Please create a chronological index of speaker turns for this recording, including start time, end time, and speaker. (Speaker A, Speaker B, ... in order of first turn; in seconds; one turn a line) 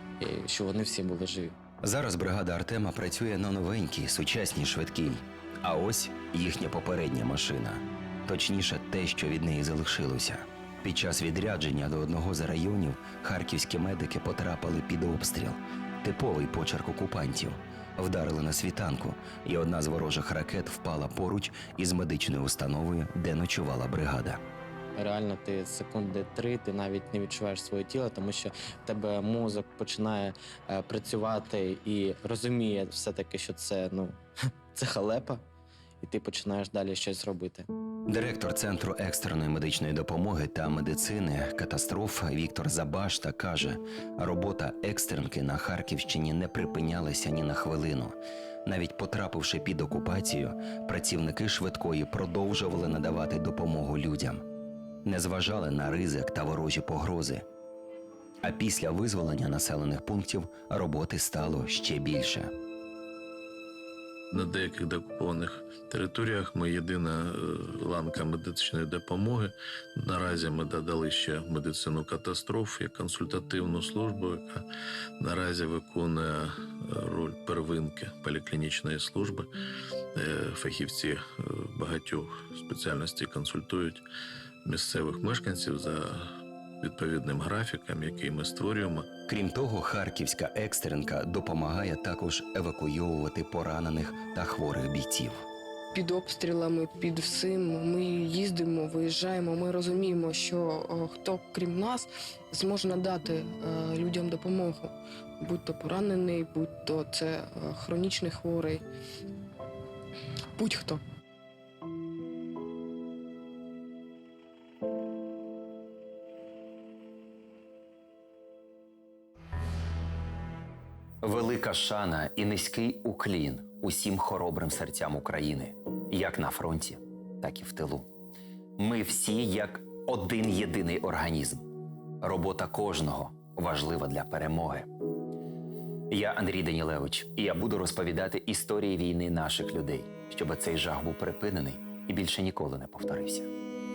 Speaker A: 0.2-1.6
Speaker B: 1.8-24.4
Speaker A: 25.0-34.2
Speaker A: 34.7-35.4
Speaker A: 36.0-37.7
Speaker B: 38.1-54.4
Speaker B: 55.0-57.5
Speaker B: 58.4-62.5
Speaker C: 64.3-74.7
Speaker C: 75.2-79.5
Speaker C: 80.2-84.0
Speaker C: 84.7-86.3
Speaker C: 86.8-89.1
Speaker B: 89.3-95.5
Speaker D: 95.9-108.8
Speaker D: 110.6-111.0
Speaker E: 121.2-128.1
Speaker E: 128.8-131.7
Speaker E: 132.2-134.9
Speaker E: 136.1-143.5